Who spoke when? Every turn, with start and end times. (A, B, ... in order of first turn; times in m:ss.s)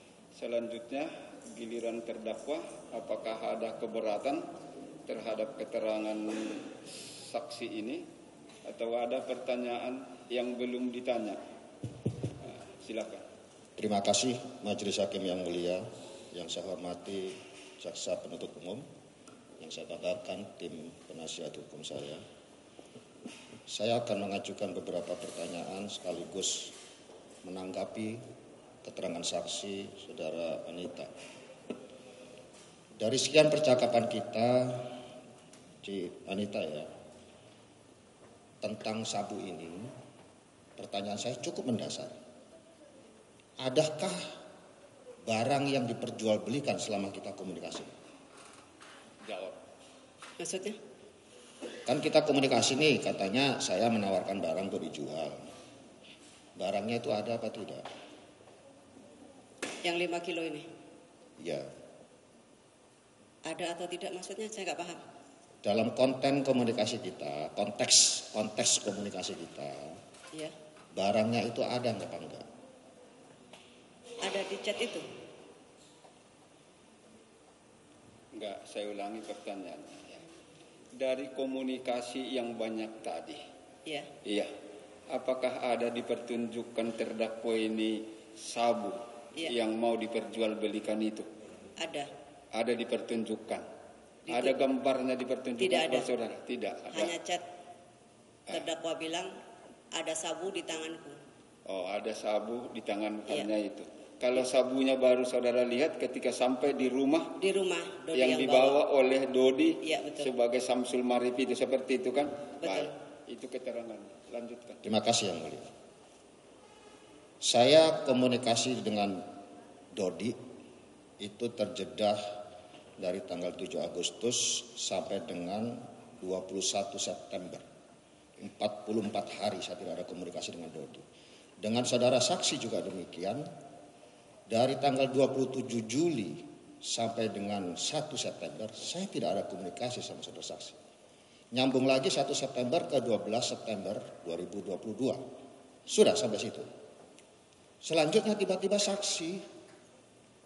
0:00.3-0:04.5 A
0:05.0-0:08.0 A
0:08.6-0:11.4 A
0:12.4-0:13.2 A
0:13.8-0:18.8 B
0:19.6-0:22.2 B
0:23.7-0:26.7 B
0:27.4-0:28.2 B
0:28.8-0:31.1 B
0:33.0-0:35.0 B
0:35.8-0:36.9 B
0:38.6-0:39.9 B
0:40.8-0:42.2 B
0:43.6-0:44.2 B
0:45.3-0:47.9 B
0:49.2-0:49.6 A
0:50.4-0:50.8 C
0:51.8-0:55.4 B
0:56.6-0:57.8 B
0:59.8-1:00.6 C
1:01.4-1:01.6 B
1:03.5-1:05.0 C
1:05.6-1:10.0 B
1:10.9-1:12.4 B
1:14.2-1:15.0 C
1:18.3-1:20.2 A
1:21.0-1:23.4 A
1:24.2-1:24.5 A
1:25.1-1:31.3 A
1:31.8-1:32.1 C
1:32.5-1:33.6 A
1:34.3-1:34.6 C
1:34.3-1:37.1 A
1:35.6-1:36.1 C
1:36.9-1:37.4 C
1:38.5-1:39.3 C
1:39.9-1:41.2 C
1:41.6-1:47.4 A
1:47.4-1:48.8 C
1:48.1-1:54.8 A
1:49.8-1:50.3 C
1:52.6-1:52.9 C
1:54.8-1:55.7 B
1:57.4-1:59.2 B
1:59.9-2:00.4 B
2:01.2-2:02.2 B
2:03.0-2:07.6 B
2:08.4-2:11.0 B
2:11.6-2:13.4 B
2:14.5-2:20.8 B
2:21.5-2:25.2 B
2:25.9-2:26.7 B
2:27.8-2:29.4 B